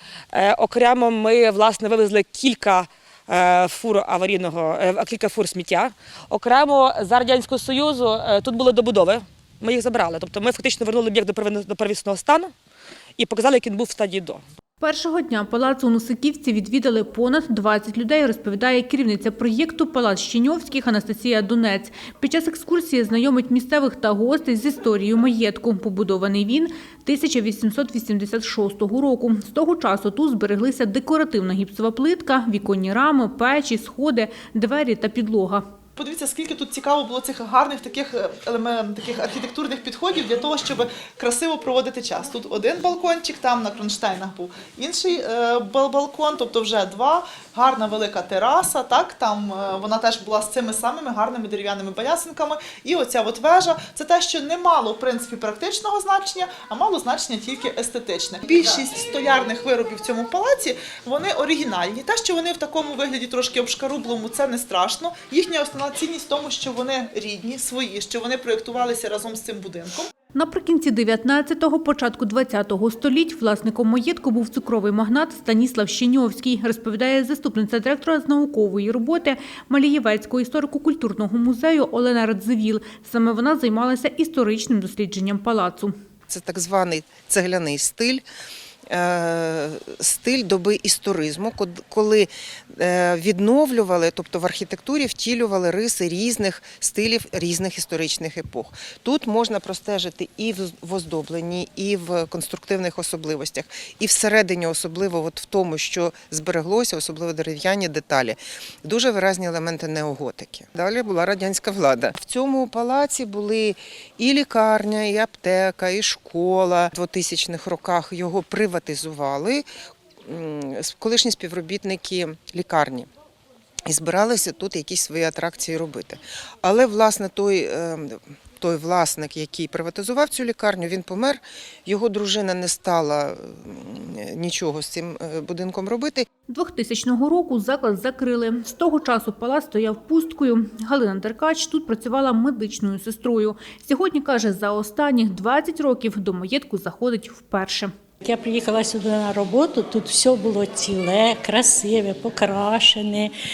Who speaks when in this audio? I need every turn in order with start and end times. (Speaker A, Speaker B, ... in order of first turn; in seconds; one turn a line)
Speaker A: 0.3-12.5
Speaker A: 13.2-14.4
Speaker B: 14.8-35.6
Speaker C: 36.0-70.1
Speaker B: 70.3-85.9
Speaker D: 86.3-88.2
Speaker D: 88.9-119.6
Speaker D: 120.3-123.1
Speaker D: 123.9-136.2
Speaker B: 136.5-147.9
Speaker E: 148.3-150.6
Speaker D: 150.2-150.8
Speaker E: 151.1-152.9